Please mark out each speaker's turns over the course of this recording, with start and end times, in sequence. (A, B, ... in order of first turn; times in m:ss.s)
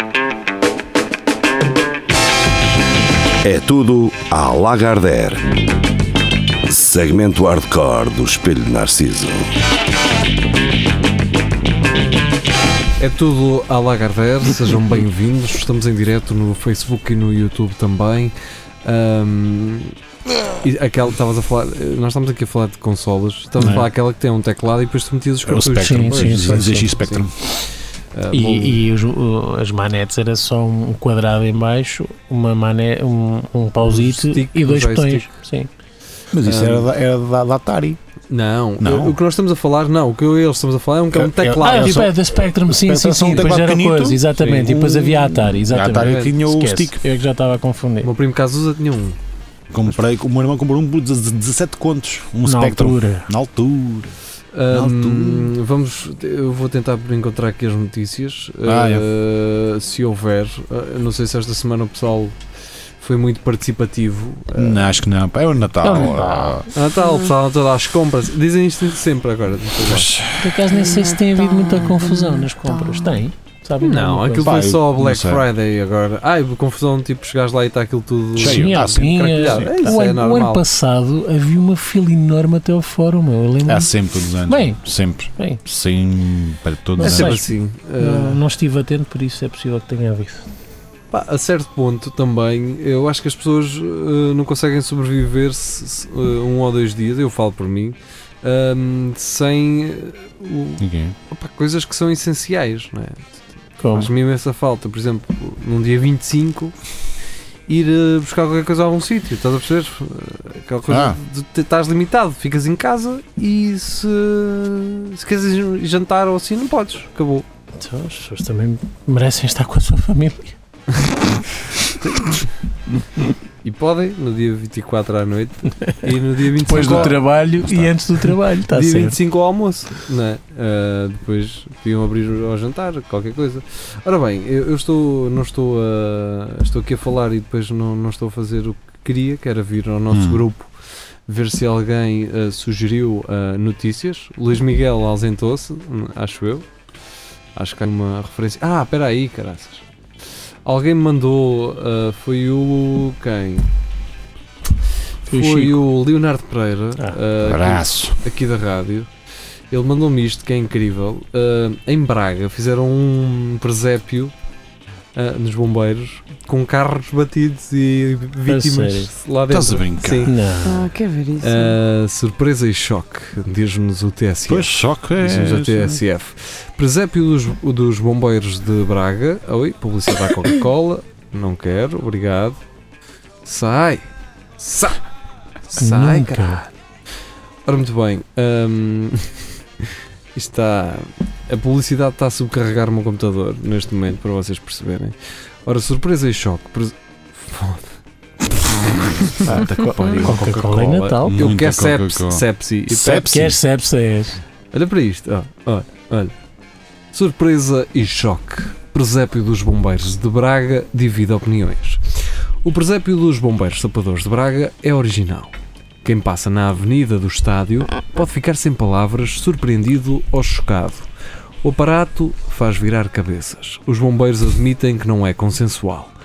0:03.4-0:05.5 A
0:06.6-0:09.6 A
0:13.0-0:20.0 B
0:20.6-0:27.3 B
0:23.6-0:23.9 C
0:25.5-0:27.3 C
0:25.7-0:27.0 D
0:28.1-0:28.8 B
0:28.3-0:35.7 D
0:33.9-0:35.3 B
0:36.3-0:38.0 C
0:36.4-0:36.9 B
0:38.3-0:42.1 B
0:38.8-0:39.2 C
0:41.1-0:42.1 C
0:41.6-0:48.1 D
0:42.7-0:47.0 C
0:44.4-0:44.8 B
0:45.9-0:46.4 B
0:48.0-0:49.2 B
0:49.7-0:54.1 C
0:52.4-0:53.3 D
0:54.5-1:02.4 B
0:54.7-0:55.5 C
0:58.6-0:59.1 C
1:03.0-1:05.0 B
1:04.5-1:06.6 C
1:05.8-1:06.7 D
1:06.7-1:10.1 B
1:07.0-1:07.3 E
1:09.8-1:10.6 C
1:10.4-1:14.6 D
1:10.7-1:13.2 E
1:13.8-1:20.6 B
1:14.4-1:15.4 C
1:18.4-1:19.7 C
1:18.4-1:24.8 D
1:23.6-1:27.4 C
1:25.4-1:25.6 D
1:27.0-1:30.4 D
1:27.0-1:28.4 B
1:31.1-1:46.8 B
1:40.8-1:41.2 C
1:43.8-1:44.1 D
1:47.7-1:57.5 B
1:50.9-1:51.2 C
1:57.8-2:00.6 D
2:02.2-2:02.4 B
2:03.6-2:07.2 B
2:06.6-2:07.9 C
2:06.7-2:09.2 D
2:08.7-2:20.7 B
2:20.1-2:20.4 C
2:21.3-2:26.7 B
2:27.6-2:29.8 B
2:30.6-2:33.7 B
2:35.3-2:39.1 B
2:35.3-2:35.8 D
2:37.4-2:38.2 C
2:39.7-2:44.3 B
2:45.2-2:50.3 B
2:48.5-2:49.1 D
2:49.5-2:50.3 C
2:50.2-2:50.9 D
2:50.6-2:51.8 E
2:51.4-3:02.6 B
2:54.5-2:56.0 C
3:03.4-3:04.0 B
3:04.6-3:05.0 B
3:05.7-3:06.7 B
3:05.8-3:06.6 D
3:07.7-3:15.2 B
3:15.7-3:17.9 B
3:18.8-3:20.4 C
3:18.9-3:23.3 B
3:20.2-3:21.4 D
3:21.2-3:23.6 C
3:23.2-3:24.4 D
3:24.7-3:26.3 B
3:27.1-3:32.0 B
3:32.6-3:41.1 B
3:41.6-3:46.1 B